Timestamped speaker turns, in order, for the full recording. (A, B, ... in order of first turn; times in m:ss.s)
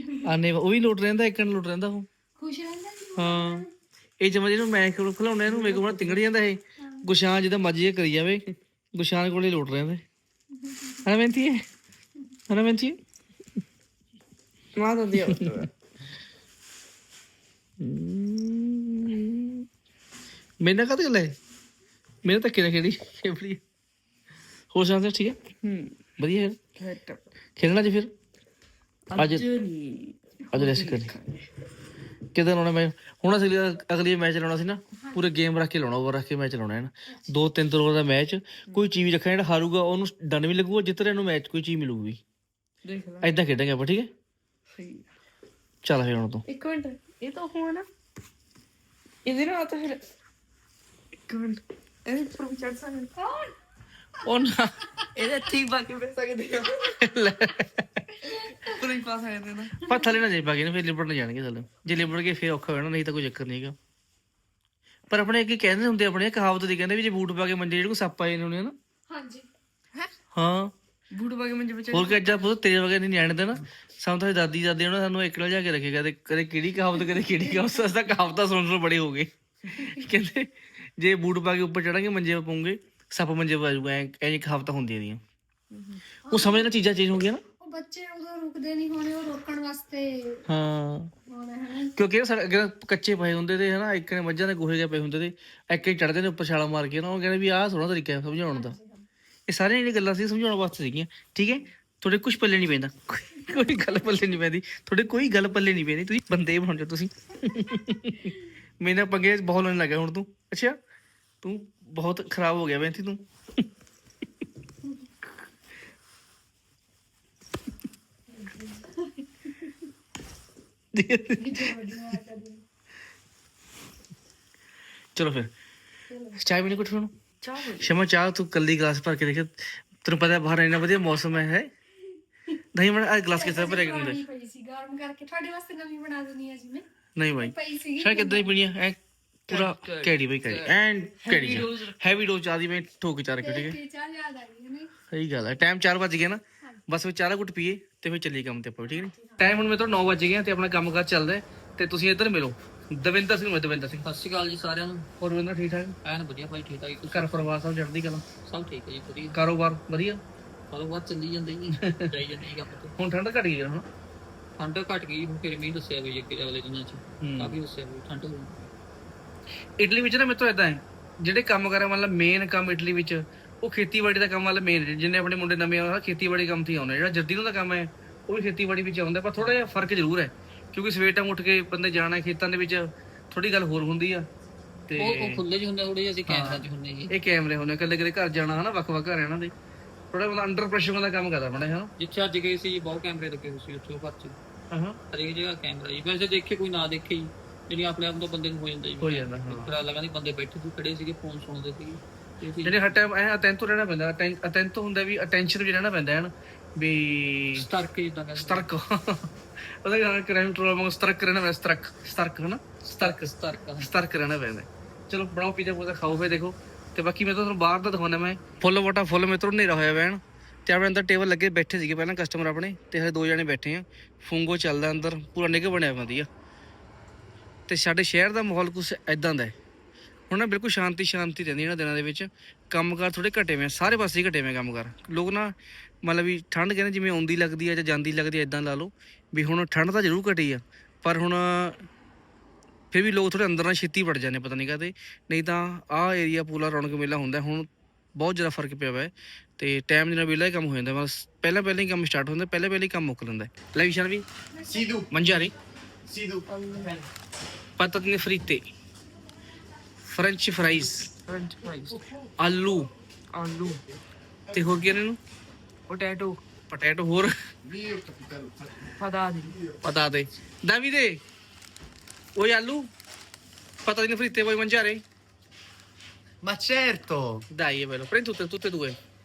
0:00.2-0:02.1 A
0:02.4-0:03.7 B
0:03.2-0:03.6 A
0:04.2-0:08.4 A
0:05.4-0:06.2 C
0:06.8-0:07.0 B
0:08.9-0:10.0 A
0:11.0-0:11.6 A
0:12.5-0:13.0 A
0:14.8-0:15.7 C
0:15.1-0:15.6 A
0:17.8-0:19.6 A
0:20.6-0:21.4 A
0:22.2-0:23.6 A
0:24.7-0:25.4 A
0:25.6-0:26.0 C
0:26.2-0:26.6 A
0:26.8-0:27.2 C
0:27.6-0:28.1 A
0:29.1-0:31.5 C
0:29.2-0:29.5 A
0:30.5-0:31.1 A
0:32.3-0:42.2 A
0:35.0-0:35.3 B
0:37.1-0:37.4 B
0:42.8-0:43.3 C
0:43.2-0:44.1 A
0:44.7-0:45.1 C
0:45.8-0:46.4 A
0:46.5-0:47.9 C
0:49.2-0:50.0 C
0:51.2-0:53.1 C
0:53.2-0:53.5 B
0:54.2-0:54.7 A
0:55.1-0:57.0 C
0:57.0-0:58.0 A
0:58.2-0:58.8 B
0:58.2-0:59.8 C
0:59.8-1:03.7 A
1:05.1-1:08.7 A
1:09.1-1:09.5 B
1:10.3-1:10.7 A
1:11.1-1:12.4 C
1:11.9-1:25.2 A
1:25.7-1:26.0 C
1:26.3-1:26.7 B
1:26.3-1:27.4 A
1:27.6-1:30.4 B
1:30.5-1:31.1 A
1:31.3-1:31.9 B
1:32.0-1:38.8 A
1:38.5-1:39.0 B
1:39.5-1:50.8 A
1:51.4-1:53.6 A
1:58.3-1:59.8 B
2:00.9-2:01.8 A
2:01.4-2:02.6 B
2:05.2-2:05.5 A
2:06.1-2:06.4 B
2:06.4-2:07.1 A
2:07.4-2:07.9 C
2:07.8-2:11.7 A
2:12.7-2:14.2 A
2:13.3-2:16.8 B
2:17.2-2:23.8 A
2:17.4-2:18.6 B
2:19.5-2:22.0 C
2:23.4-2:24.9 B
2:25.1-2:34.0 A
2:28.8-2:29.5 B
2:34.0-2:35.1 D
2:35.2-2:36.0 A
2:36.0-2:37.5 D
2:37.1-2:38.2 A
2:38.4-2:39.4 D
2:39.3-2:40.2 A
2:40.7-2:42.9 D
2:41.7-2:42.1 A
2:43.0-2:43.8 A
2:44.6-2:48.7 D
2:47.2-2:47.6 A
2:49.8-3:04.3 A
3:04.9-3:05.4 A
3:05.0-3:07.1 D
3:06.3-3:09.5 A
3:10.1-3:11.9 A
3:12.0-3:14.4 D
3:14.7-3:15.0 A
3:15.1-3:22.9 D
3:19.0-3:19.7 A
3:22.6-3:27.6 A
3:27.5-3:28.7 D
3:28.3-3:46.3 A
3:32.8-3:33.9 D
3:47.7-3:49.5 A
3:50.3-4:01.8 A
4:02.9-4:14.2 A
4:15.1-4:15.5 A
4:16.1-4:16.4 E
4:16.5-4:17.0 C
4:17.8-4:18.6 A
4:20.1-4:21.1 A
4:21.3-4:22.0 C
4:22.4-4:22.9 A
4:23.3-4:23.8 C
4:24.5-4:25.2 A
4:25.9-4:26.4 C
4:26.7-4:27.3 A
4:27.8-4:28.5 E
4:29.0-4:29.6 C
4:29.8-4:31.2 A
4:32.4-4:32.9 A
4:33.8-4:35.0 A
4:36.4-4:37.4 E
4:37.5-4:39.0 A